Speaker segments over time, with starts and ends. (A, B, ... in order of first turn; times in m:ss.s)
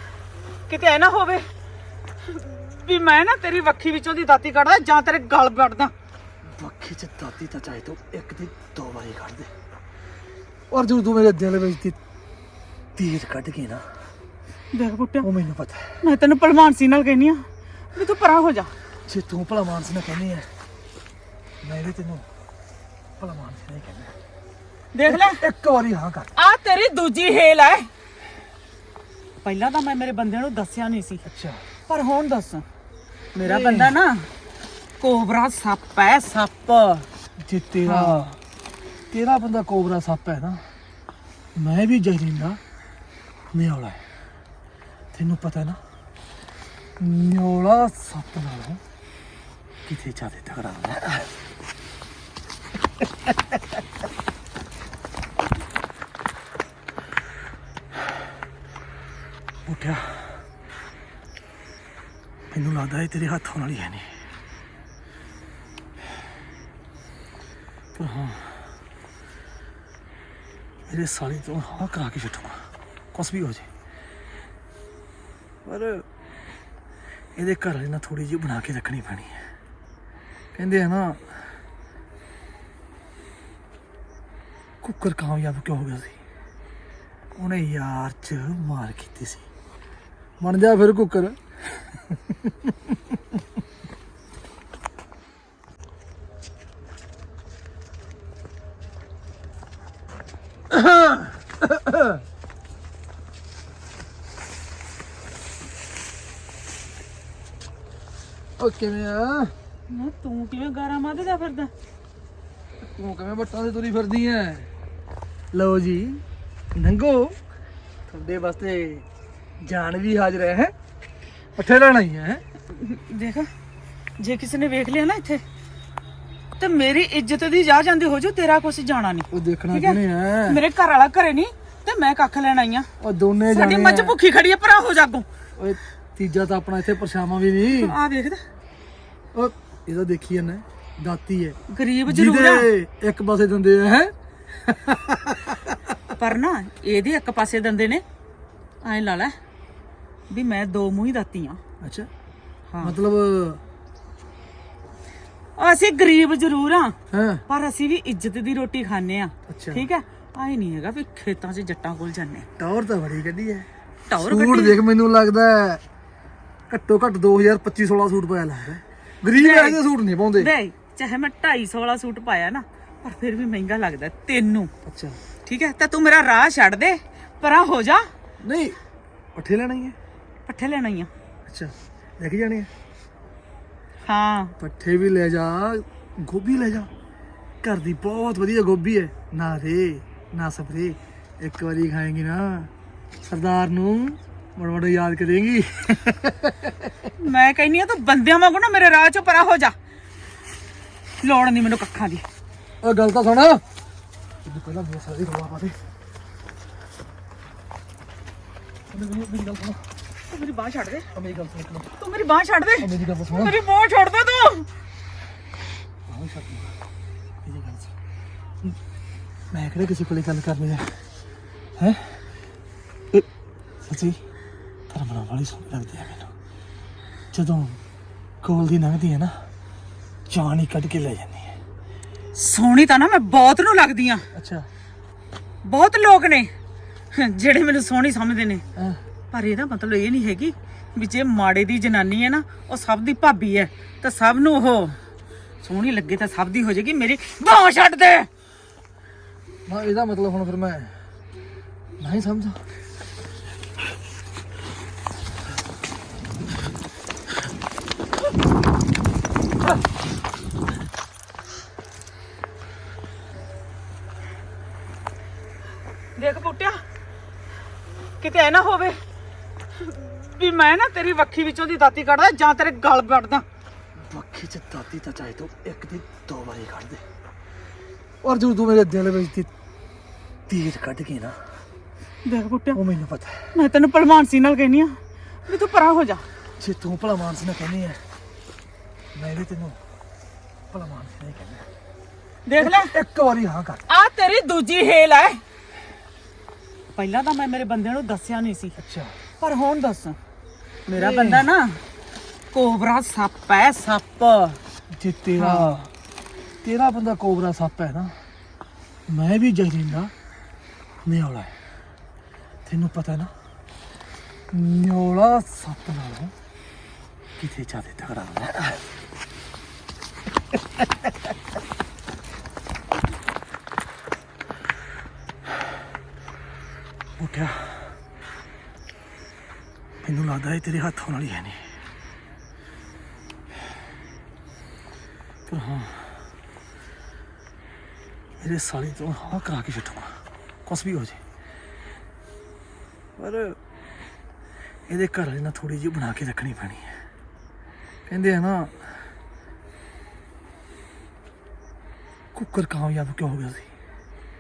0:00.7-0:01.5 A
0:02.3-0:05.9 A
0:06.6-0:09.5 B
0:10.7-0:12.0 B
0:13.0-0:13.8 B
0:14.7-0:15.3 A
0:15.2-0:16.0 B
0:16.0-0:17.4 A
0:18.0-0:18.7 A
0:19.1-0:20.5 B
0:21.6-0:22.2 B
0:23.2-0:24.1 B
0:24.9-0:25.4 A
0:25.1-0:26.3 B
0:26.4-0:27.9 A
0:29.4-0:31.2 A
0:31.2-0:31.6 B
0:31.9-0:32.6 A
0:33.3-0:34.3 A
0:33.4-0:34.0 B
0:35.0-0:37.1 A
0:37.4-0:38.4 B
0:37.8-0:38.3 A
0:39.1-0:40.6 B
0:41.6-0:42.6 B
0:43.5-0:44.0 B
0:45.1-0:45.8 B
0:47.0-0:48.8 B
0:49.9-0:51.3 B
0:59.7-1:00.3 B
1:02.5-1:04.1 B
1:08.0-1:08.6 B
1:10.9-1:13.7 B
1:15.6-1:16.1 B
1:17.4-1:19.4 B
1:20.6-1:21.2 B
1:24.8-1:26.2 B
1:27.4-1:29.4 B
1:30.4-1:31.4 B
1:40.7-1:42.2 B
1:48.6-1:49.5 B
1:49.9-1:51.7 A
1:53.0-1:54.7 B
1:55.5-1:56.2 B
1:56.8-1:57.4 B
1:58.1-1:59.0 B
1:59.6-2:00.7 B
2:01.6-2:02.4 B
2:02.7-2:03.5 A
2:04.2-2:05.4 A
2:06.6-2:12.9 A
2:09.3-2:10.6 B
2:13.0-2:14.2 B
2:13.5-2:15.3 A
2:15.6-2:18.0 B
2:17.7-2:18.4 A
2:19.3-2:24.1 B
2:21.7-2:22.7 A
2:24.6-2:25.8 B
2:26.2-2:28.0 A
2:28.8-2:29.4 A
2:30.3-2:31.6 A
2:31.8-2:32.1 B
2:32.7-2:33.0 A
2:32.8-2:33.6 B
2:35.6-2:37.0 A
2:37.1-2:37.4 B
2:37.5-2:42.5 A
2:39.5-2:39.9 B
2:42.6-2:43.7 B
2:44.1-2:44.8 A
2:44.2-2:45.8 B
2:46.7-2:50.5 B
2:49.3-2:49.8 A
2:50.4-2:54.7 A
2:54.8-2:55.2 B
2:55.5-2:58.1 A
2:58.4-2:58.8 B
2:59.4-3:00.0 B
3:00.5-3:01.1 A
3:01.5-3:02.7 B
3:04.0-3:04.6 A
3:04.6-3:06.9 B
3:07.6-3:12.7 B
3:13.3-3:16.9 B
3:17.2-3:19.7 A
3:21.2-3:22.2 A
3:22.8-3:23.6 B
3:24.4-3:25.8 B
3:28.9-3:29.8 B
3:30.3-3:31.1 A
3:31.1-3:31.9 B
3:32.0-3:34.7 A
3:32.8-3:33.6 B
3:36.1-3:36.7 B
3:37.4-3:37.9 B
3:39.5-3:40.9 B
3:41.8-3:42.2 B
3:43.8-3:44.2 B
3:44.9-3:46.3 B
3:47.3-3:47.8 B
3:48.4-3:49.4 B
3:50.3-3:51.5 B
3:52.4-3:54.3 A
3:54.3-3:54.7 B
3:55.6-3:56.5 A
3:57.1-3:58.6 A
3:59.3-4:05.0 A
4:05.6-4:08.3 A
4:09.7-4:10.9 B
4:12.0-4:12.6 B
4:26.2-4:26.8 A
4:28.2-4:29.0 A
4:29.8-4:33.4 A
4:34.1-4:37.0 B
4:38.2-4:39.5 B
4:40.5-4:41.4 B
4:42.2-4:42.8 A
4:42.7-4:43.5 B
4:43.5-4:45.0 A
4:45.5-4:46.2 A
4:46.6-4:48.0 B
4:49.2-4:49.8 B
4:50.7-4:51.6 B
4:52.5-4:52.9 A
4:52.6-4:53.8 B
4:53.9-4:55.4 A
4:57.0-4:58.7 A
4:58.8-4:59.1 B
4:59.4-5:00.2 A
5:00.9-5:01.8 A
5:01.0-5:01.5 B
5:02.5-5:04.6 A
5:04.9-5:05.9 B
5:05.4-5:05.8 A
5:06.6-5:08.2 B
5:09.1-5:10.1 B
5:11.1-5:11.5 B
5:12.7-5:13.3 B
5:14.5-5:16.3 B
5:17.4-5:18.8 B
5:27.2-5:27.9 B
5:30.0-5:31.6 B
5:35.5-5:36.1 B
5:38.4-5:41.2 B
5:43.2-5:43.6 B
5:44.9-5:47.0 B
5:48.1-5:48.8 B
5:52.4-5:53.7 B